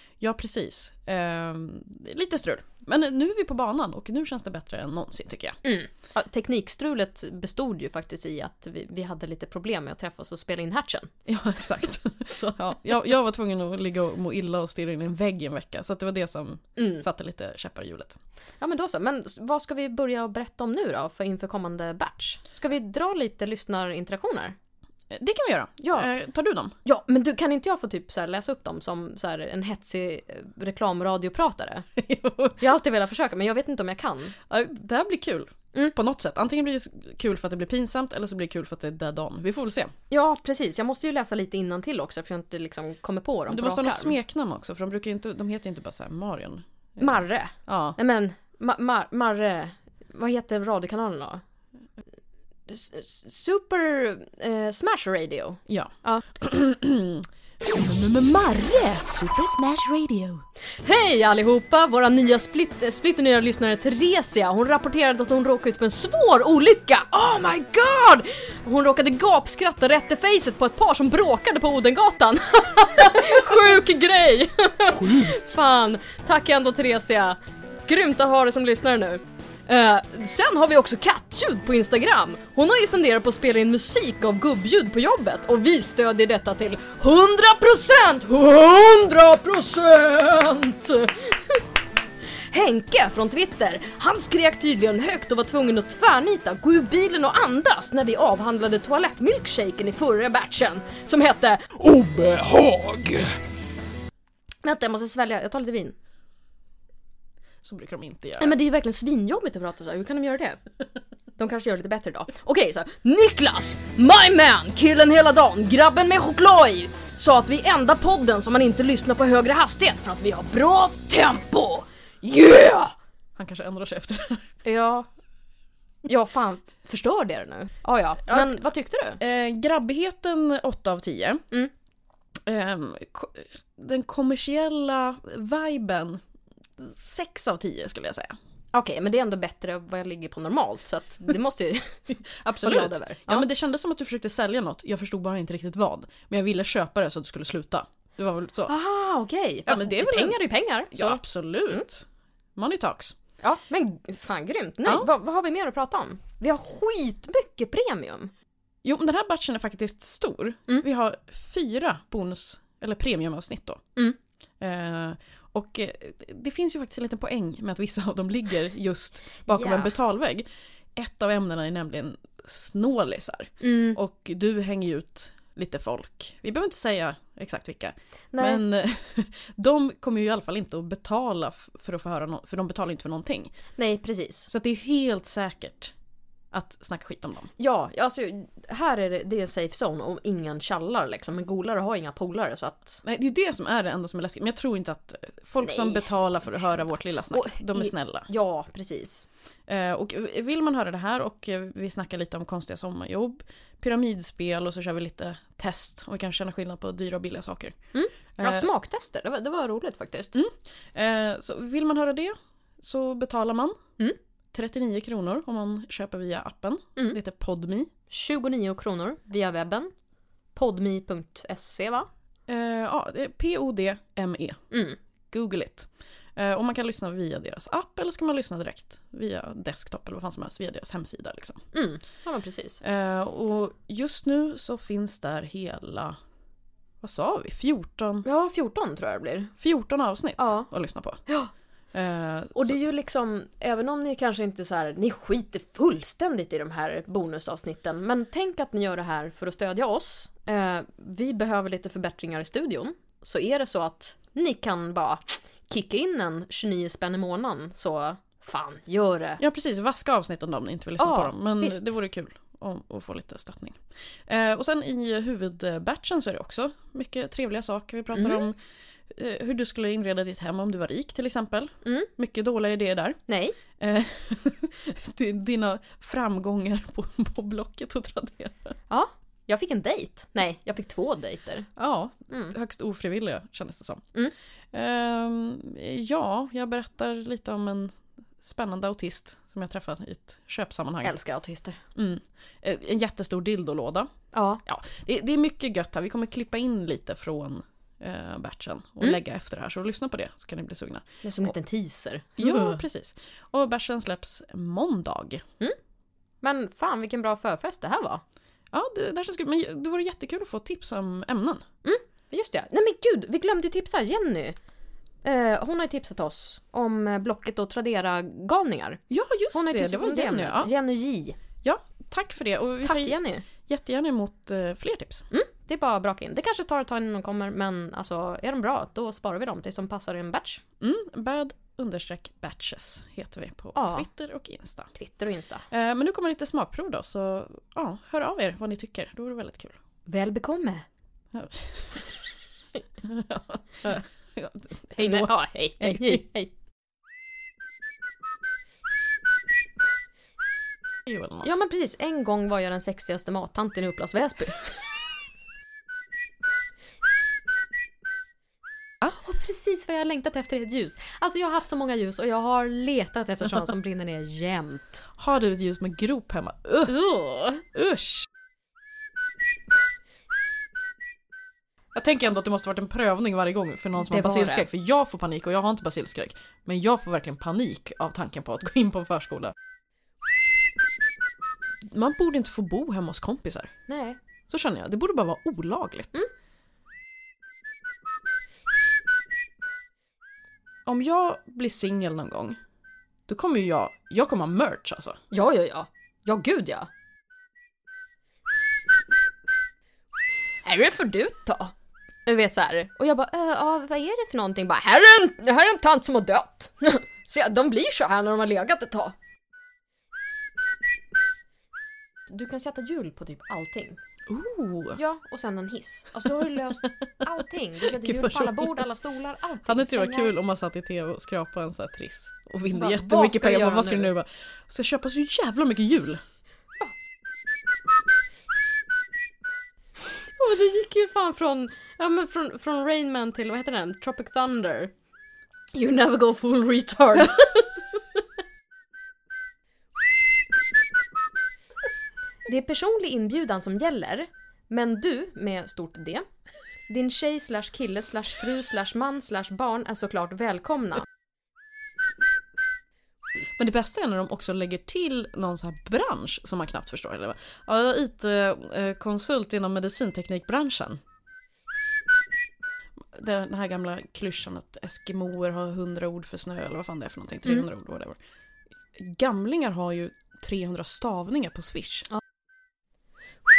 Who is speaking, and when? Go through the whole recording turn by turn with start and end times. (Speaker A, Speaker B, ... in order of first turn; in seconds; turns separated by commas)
Speaker A: 0.2-5.6, Speaker B: 5.6-11.1, Speaker A: 11.3-18.2, Speaker B: 12.3-12.6, Speaker B: 16.8-17.0, Speaker B: 18.6-24.6, Speaker A: 25.1-26.8, Speaker B: 25.8-26.1, Speaker B: 26.8-31.9, Speaker A: 32.0-32.6, Speaker B: 32.6-34.3, Speaker A: 34.5-39.9, Speaker B: 40.1-44.2, Speaker A: 43.5-48.0, Speaker B: 47.0-51.4, Speaker B: 52.7-56.2, Speaker A: 55.7-60.4, Speaker B: 60.8-91.6, Speaker B: 92.5-103.3, Speaker B: 104.6-106.0, Speaker A: 107.6-108.6, Speaker B: 108.4-110.6, Speaker B: 111.3-122.9, Speaker A: 123.4-124.4, Speaker B: 124.6-125.1, Speaker B: 126.0-129.2, Speaker A: 128.3-128.7, Speaker A: 129.2-131.4, Speaker A: 132.5-136.2, Speaker A: 136.8-138.3, Speaker B: 138.7-143.5, Speaker A: 142.4-148.7, Speaker B: 148.7-151.8, Speaker A: 149.7-150.4, Speaker A: 150.9-152.1, Speaker A: 152.6-153.2, Speaker B: 153.4-158.3, Speaker A: 158.8-163.8, Speaker A: 164.6-183.5, Speaker B: 169.5-169.9, Speaker B: 173.6-174.0, Speaker B: 178.3-178.6, Speaker B: 183.8-184.5, Speaker A: 184.5-185.9, Speaker A: 186.5-187.5, Speaker B: 187.6-193.0, Speaker A: 193.0-198.3, Speaker B: 195.6-199.3, Speaker A: 199.7-207.8, Speaker B: 207.9-210.3, Speaker A: 208.4-208.7, Speaker A: 210.3-213.8, Speaker A: 214.5-217.9, Speaker B: 218.1-219.9, Speaker B: 220.6-222.1, Speaker A: 222.5-224.6, Speaker B: 224.7-225.0, Speaker A: 225.3-231.6, Speaker B: 231.7-232.8, Speaker A: 232.8-236.2, Speaker A: 237.0-238.2, Speaker B: 238.2-239.5, Speaker A: 239.6-241.2, Speaker B: 240.4-240.7, Speaker A: 241.9-242.8, Speaker B: 242.6-259.4, Speaker A: 259.4-268.6, Speaker B: 261.0-261.9, Speaker B: 268.1-268.4, Speaker A: 269.1-273.2, Speaker B: 271.8-272.1, Speaker B: 273.3-273.6, Speaker A: 273.8-278.7, Speaker B: 278.9-281.7, Speaker A: 281.8-284.0, Speaker B: 282.3-282.6, Speaker A: 284.7-291.1, Speaker B: 291.0-291.8, Speaker A: 291.9-294.1, Speaker B: 294.3-294.6, Speaker A: 294.7-301.5, Speaker B: 301.2-302.8, Speaker A: 302.4-305.4, Speaker B: 306.4-308.2, Speaker A: 308.7-311.6, Speaker B: 311.8-314.6, Speaker B: 315.2-319.0, Speaker A: 319.1-320.7, Speaker B: 319.5-321.4, Speaker A: 321.6-325.2, Speaker B: 322.8-323.4, Speaker B: 325.3-330.6, Speaker A: 330.8-334.9, Speaker B: 333.8-334.1, Speaker B: 334.9-335.7, Speaker A: 335.7-339.8, Speaker B: 340.1-340.9, Speaker A: 341.3-342.1, Speaker A: 343.0-346.2, Speaker B: 345.0-346.5, Speaker A: 351.1-351.5, Speaker B: 351.4-354.9, Speaker B: 359.0-365.0, Speaker A: 365.2-366.9, Speaker B: 366.9-367.6, Speaker A: 367.7-368.2, Speaker A: 371.9-379.5, Speaker B: 374.0-374.7, Speaker A: 381.9-383.7, Speaker B: 383.9-384.2, Speaker A: 384.5-386.2, Speaker A: 390.9-392.6, Speaker A: 393.3-395.2, Speaker B: 395.3-396.9, Speaker B: 400.6-401.7, Speaker B: 402.2-409.2, Speaker B: 412.3-414.0, Speaker A: 414.3-415.0, Speaker B: 415.0-420.4, Speaker A: 417.9-418.9, Speaker A: 419.7-426.2, Speaker B: 422.7-424.1, Speaker B: 430.2-434.9, Speaker B: 435.7-438.2, Speaker B: 442.5-446.2, Speaker B: 446.9-451.1, Speaker A: 453.6-461.0, Speaker A: 463.1-468.2, Speaker A: 468.9-472.1